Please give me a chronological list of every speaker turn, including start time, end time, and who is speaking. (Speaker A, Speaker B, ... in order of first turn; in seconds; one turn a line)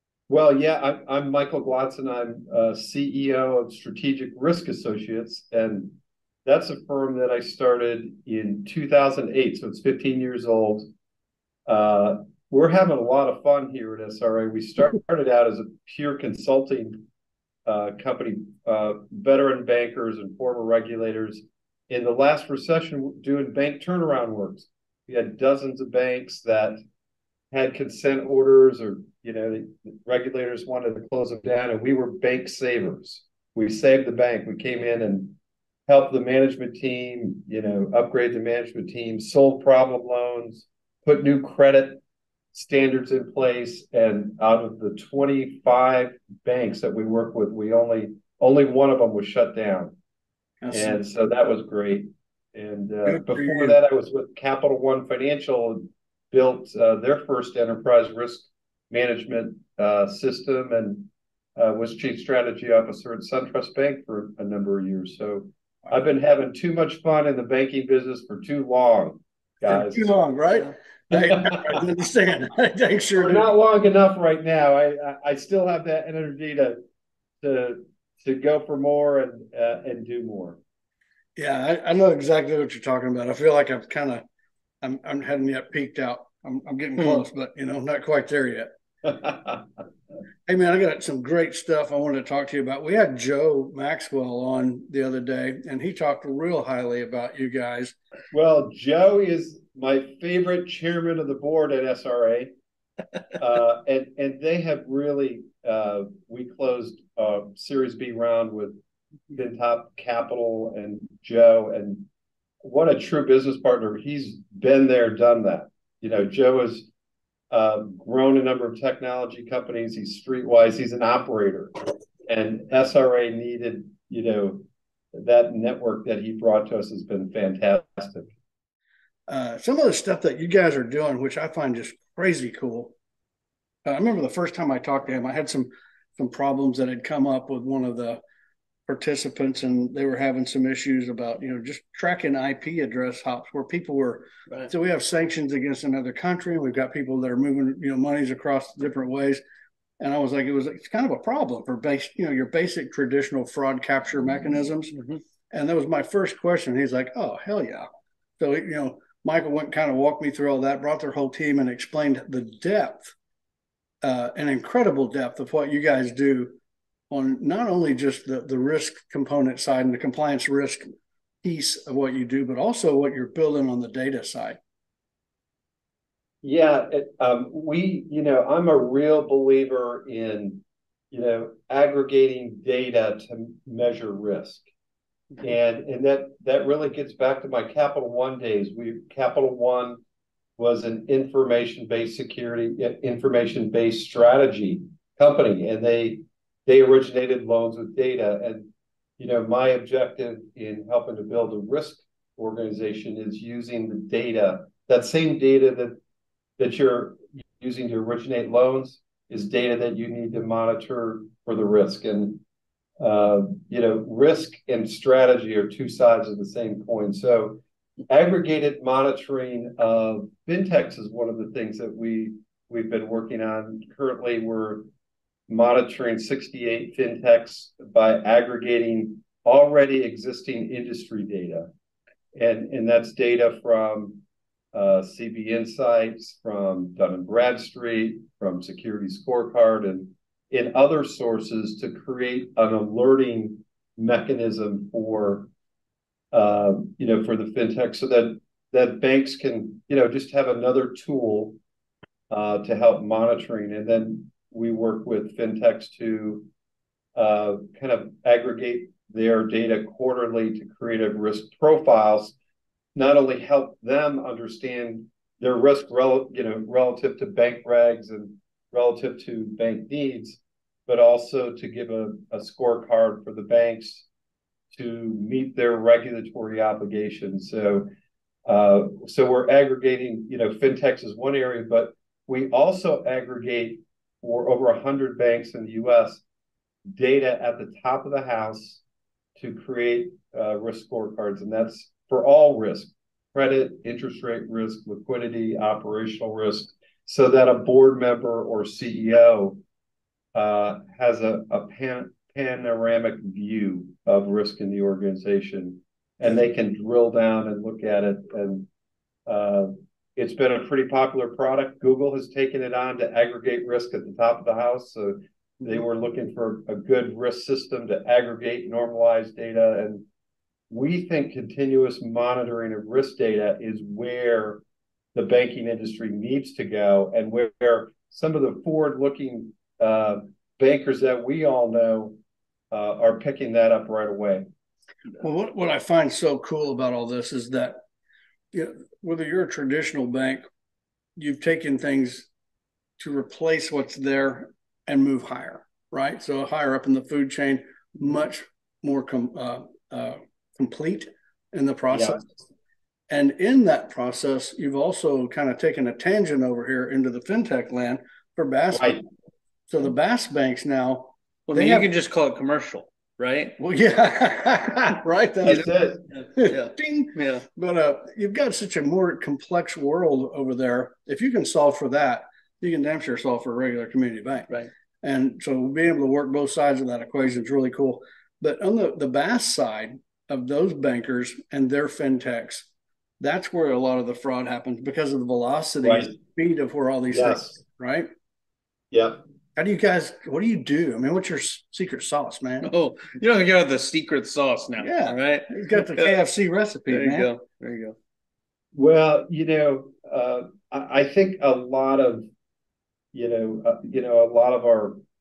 Speaker A: 0.3-10.9
Speaker A: 11.7-17.1
Speaker A: 17.6-26.8
Speaker A: 27.5-35.4
Speaker A: 35.9-42.0
Speaker A: 42.5-49.9
Speaker B: 50.6-51.0
Speaker A: 50.7-70.1
Speaker B: 53.0-53.8
Speaker B: 69.6-73.5
Speaker A: 71.1-71.8
Speaker A: 73.2-76.8
Speaker A: 77.4-80.6
Speaker B: 81.3-84.2
Speaker B: 84.8-88.7
Speaker A: 89.1-89.6
Speaker B: 90.5-97.9
Speaker A: 98.3-102.5
Speaker A: 103.4-108.8
Speaker A: 109.3-112.1
Speaker A: 112.6-116.9
Speaker A: 117.5-128.3
Speaker B: 129.3-132.9
Speaker B: 133.8-138.2
Speaker B: 138.9-149.4
Speaker B: 150.0-154.9
Speaker C: 154.9-155.2
Speaker B: 155.5-157.9
Speaker B: 158.4-163.1
Speaker B: 164.0-166.5
Speaker B: 167.1-170.9
Speaker B: 171.4-174.6
Speaker A: 176.4-184.7
Speaker A: 185.4-190.0
Speaker A: 190.6-206.0
Speaker A: 206.6-212.4
Speaker A: 213.0-224.9
Speaker A: 225.5-231.7
Speaker A: 232.3-245.5
Speaker A: 246.3-251.6
Speaker A: 252.3-256.5
Speaker A: 257.1-262.4
Speaker A: 262.9-274.1
Speaker A: 274.7-277.9
Speaker A: 278.4-286.2
Speaker A: 286.9-288.8
Speaker A: 289.4-299.6
Speaker A: 300.3-308.7
Speaker A: 309.3-320.1
Speaker A: 320.7-324.6
Speaker A: 325.1-332.2
Speaker A: 332.7-334.4
Speaker B: 335.2-337.8
Speaker B: 338.5-340.4
Speaker B: 341.2-342.3
Speaker B: 343.0-352.4
Speaker A: 351.9-352.2
Speaker B: 353.1-359.0
Speaker A: 358.7-359.0
Speaker B: 359.7-361.9
Speaker C: 361.5-363.6
Speaker B: 363.6-365.7
Speaker A: 365.4-366.1
Speaker C: 366.1-367.4
Speaker B: 366.4-374.5
Speaker B: 375.0-382.7
Speaker B: 383.2-388.1
Speaker A: 385.8-386.1
Speaker A: 387.1-387.6
Speaker A: 388.9-389.2
Speaker B: 389.6-392.7
Speaker C: 392.6-396.2
Speaker B: 394.8-397.3
Speaker C: 396.9-397.9
Speaker A: 398.7-402.3
Speaker A: 403.1-405.0